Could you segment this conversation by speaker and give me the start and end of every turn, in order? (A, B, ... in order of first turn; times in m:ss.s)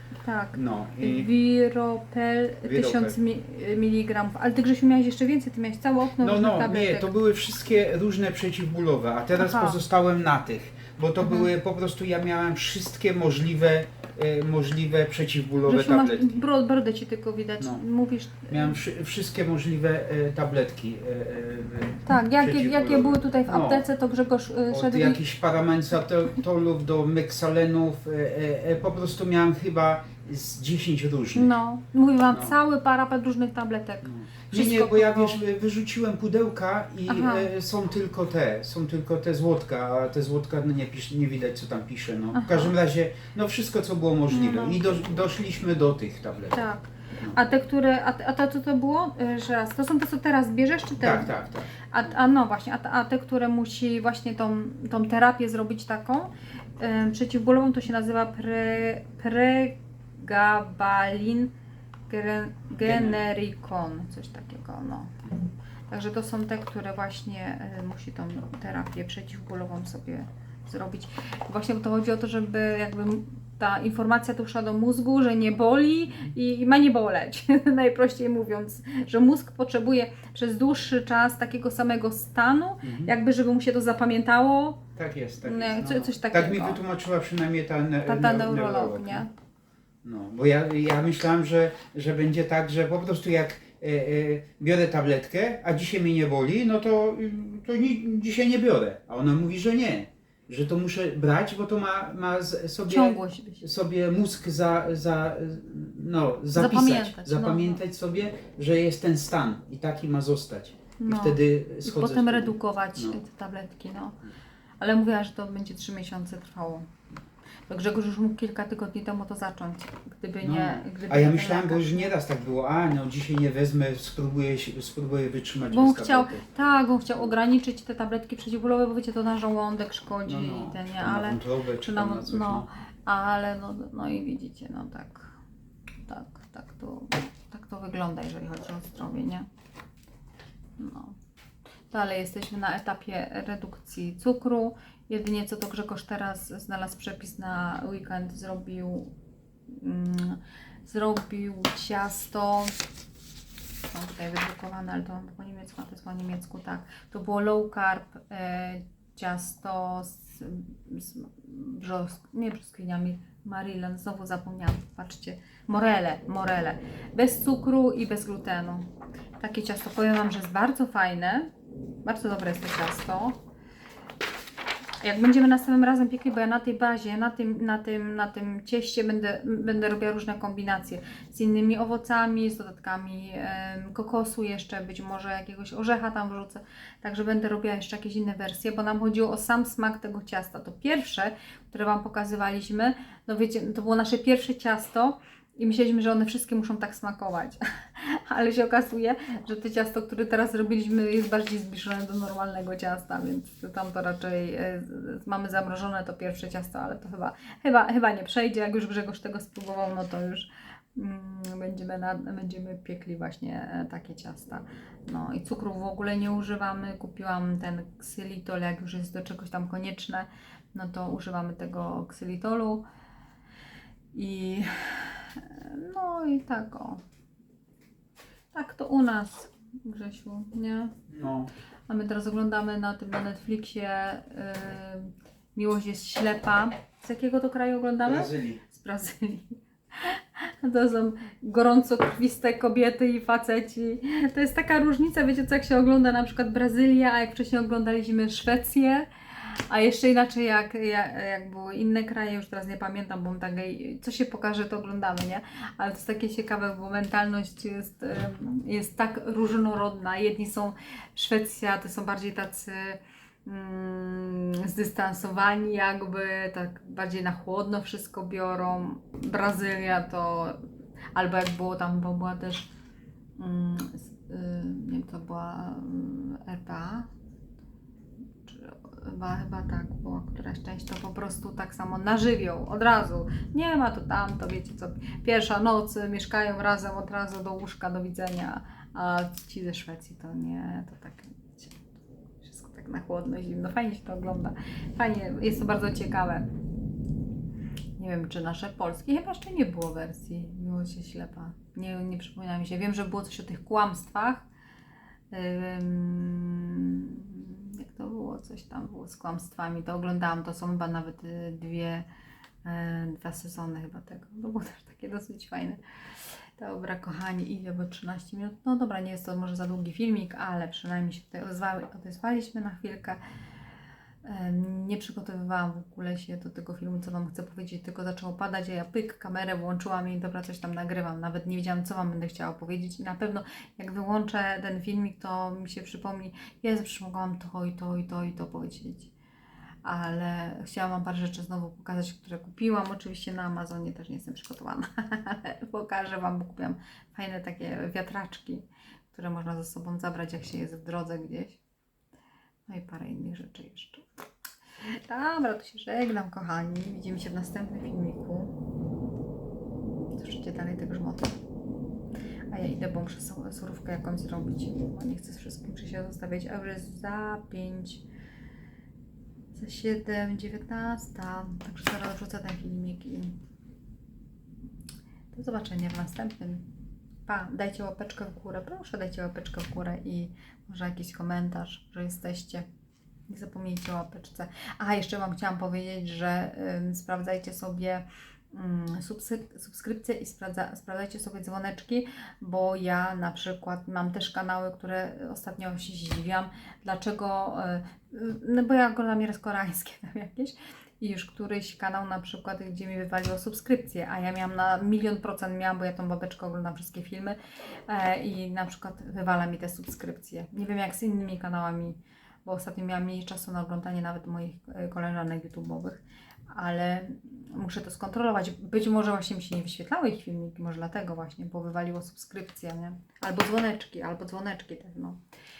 0:00.2-0:07.2 A
0:00.5-0:01.3 B
0:02.6-0:03.2 B
0:06.2-0:16.4 B
0:09.4-0:09.8 A
0:11.2-0:11.5 A
0:15.7-0:18.8 A
0:18.5-0:23.9 B
0:22.1-0:25.2 A
0:24.7-0:31.5 B
0:31.4-0:35.4 A
0:32.3-0:32.6 B
0:34.0-0:46.6 B
0:37.1-0:37.5 A
0:42.3-0:42.7 A
0:44.3-0:45.1 A
0:46.5-0:51.4 A
0:51.0-0:51.7 B
0:51.9-1:01.5 A
1:02.1-1:05.4 A
1:02.8-1:03.2 B
1:05.9-1:24.8 A
1:16.1-1:16.3 B
1:22.8-1:23.1 B
1:25.0-1:29.3 B
1:25.4-1:26.8 A
1:28.1-1:29.3 A
1:30.0-1:53.2 B
1:42.9-1:43.6 A
1:46.5-1:47.8 A
1:51.0-1:54.2 A
1:54.8-1:56.9 A
1:57.7-2:02.1 A
2:00.4-2:06.5 B
2:05.7-2:15.3 A
2:10.3-2:12.7 B
2:16.1-2:19.5 A
2:20.8-2:21.2 A
2:21.9-2:29.1 A
2:29.7-2:32.7 A
2:33.8-2:51.5 A
2:52.0-2:53.4 A
2:55.0-3:42.9 A
3:44.1-3:47.0 A
3:48.5-3:50.9 A
3:51.1-3:51.5 B
3:51.9-4:30.6 A
3:58.0-3:58.6 B
4:31.2-4:32.7 A
4:33.4-4:37.1 A
4:38.4-4:51.9 A
4:52.4-4:56.5 A
4:58.0-5:04.5 A
5:05.3-5:12.1 A
5:12.6-5:15.8 A
5:16.6-5:23.2 A
5:24.2-5:39.1 A
5:39.8-5:51.6 A
5:52.7-5:54.1 A
5:54.8-5:58.5 A
6:00.1-6:01.4 A
6:02.5-6:08.0 A
6:09.5-6:13.4 A
6:15.3-6:16.7 A
6:17.3-6:22.6 A
6:23.3-7:05.2 A